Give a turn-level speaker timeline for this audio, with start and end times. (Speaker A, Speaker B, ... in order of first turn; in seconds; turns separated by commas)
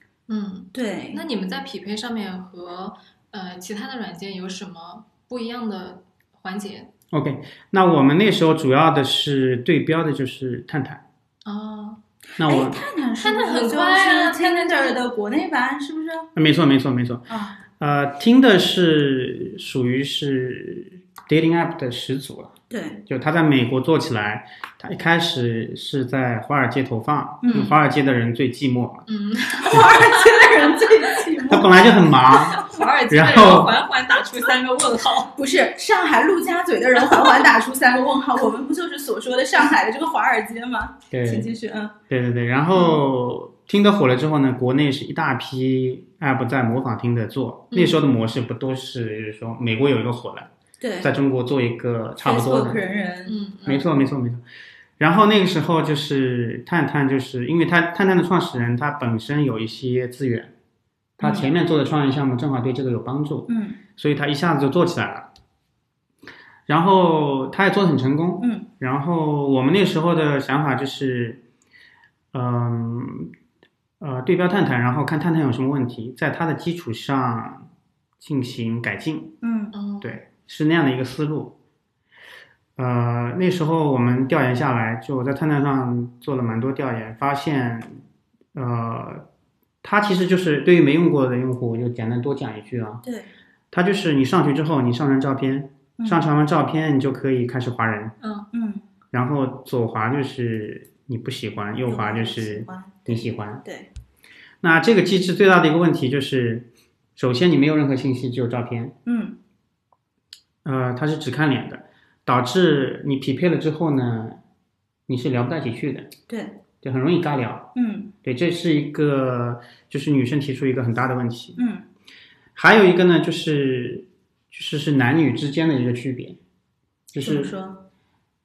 Speaker A: 0.3-6.9, Speaker B: 0.7-1.2, Speaker C: 7.1-11.0, Speaker A: 11.4-12.0, Speaker C: 12.4-12.8, Speaker B: 12.4-16.3, Speaker A: 13.2-15.0, Speaker C: 16.4-22.6, Speaker B: 17.3-17.6, Speaker B: 22.7-23.0, Speaker C: 23.1-29.1, Speaker B: 27.4-27.7, Speaker A: 29.1-31.0, Speaker B: 29.7-31.9, Speaker C: 31.5-33.8, Speaker A: 32.3-35.3, Speaker B: 35.4-42.0, Speaker C: 41.1-41.5, Speaker C: 42.1-50.5, Speaker A: 47.7-48.0, Speaker B: 50.8-51.1, Speaker C: 51.0-52.8, Speaker B: 52.2-53.4, Speaker A: 53.3-53.8, Speaker C: 53.6-54.4, Speaker C: 55.0-60.5, Speaker C: 61.2-65.3, Speaker B: 61.2-61.5, Speaker B: 63.5-63.8, Speaker C: 66.7-71.4, Speaker B: 68.4-68.7, Speaker C: 72.3-73.3, Speaker C: 74.0-77.7, Speaker C: 78.2-79.4, Speaker B: 79.4-79.8, Speaker A: 79.7-80.2, Speaker C: 80.0-81.6, Speaker C: 82.8-88.0, Speaker C: 88.5-89.3, Speaker C: 89.8-93.0, Speaker B: 93.0-93.3, Speaker C: 93.7-98.1, Speaker B: 96.0-96.2, Speaker A: 98.2-98.5, Speaker B: 98.5-98.9, Speaker C: 99.1-103.6, Speaker B: 101.8-103.9, Speaker C: 104.6-109.0, Speaker B: 109.1-109.4, Speaker C: 110.6-114.4, Speaker C: 115.1-116.1, Speaker B: 116.3-116.6, Speaker C: 116.8-117.7, Speaker B: 117.8-118.1, Speaker C: 118.2-121.6, Speaker B: 121.6-121.9, Speaker C: 122.5-126.4, Speaker C: 127.1-127.5, Speaker B: 127.2-127.9